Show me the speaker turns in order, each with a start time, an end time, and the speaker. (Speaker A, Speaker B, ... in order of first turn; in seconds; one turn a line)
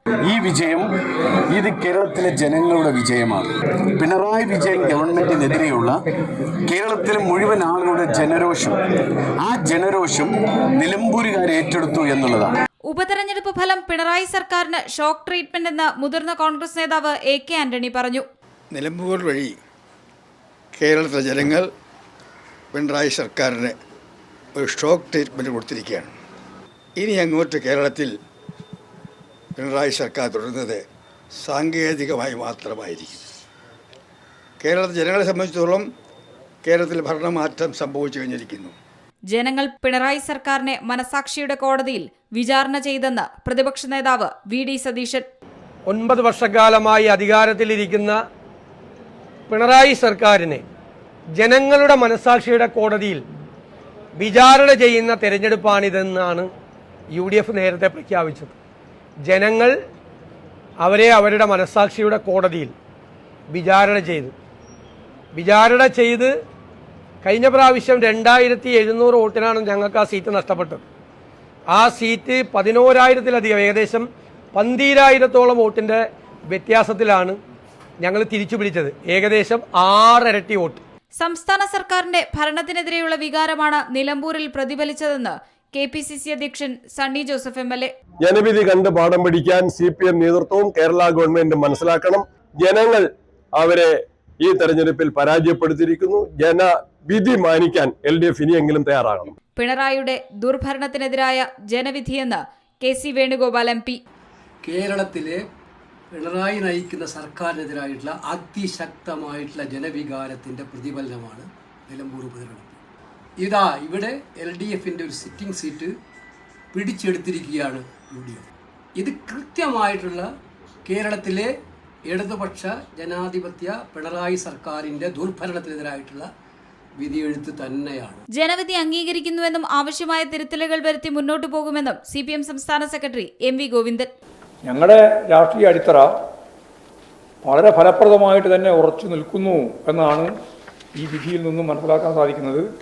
Speaker A: 0.2-0.9
Speaker A: 1.5-6.0
Speaker A: 6.7-8.8
Speaker A: 9.4-12.5
Speaker B: 12.9-18.2
Speaker C: 18.7-19.5
Speaker C: 20.7-21.7
Speaker C: 22.7-23.7
Speaker C: 24.6-26.1
Speaker C: 27.0-28.1
Speaker C: 29.6-30.8
Speaker C: 31.4-33.2
Speaker C: 34.6-35.9
Speaker C: 36.6-38.7
Speaker B: 39.3-45.3
Speaker D: 45.9-48.2
Speaker D: 49.5-50.6
Speaker D: 51.4-53.2
Speaker D: 54.2-56.5
Speaker D: 57.1-58.5
Speaker D: 59.2-59.7
Speaker D: 60.8-62.7
Speaker D: 63.5-64.3
Speaker D: 65.3-66.3
Speaker D: 67.2-70.8
Speaker D: 71.7-77.4
Speaker D: 78.0-80.8
Speaker B: 81.2-87.9
Speaker E: 88.2-99.3
Speaker B: 99.6-104.0
Speaker F: 104.6-105.4
Speaker F: 106.1-112.8
Speaker F: 113.4-115.9
Speaker F: 116.7-118.5
Speaker F: 119.0-120.2
Speaker F: 120.8-121.5
Speaker F: 122.1-126.3
Speaker F: 127.0-128.2
Speaker B: 128.3-134.1
Speaker G: 134.6-136.1
Speaker G: 137.4-140.3
Speaker G: 141.0-142.6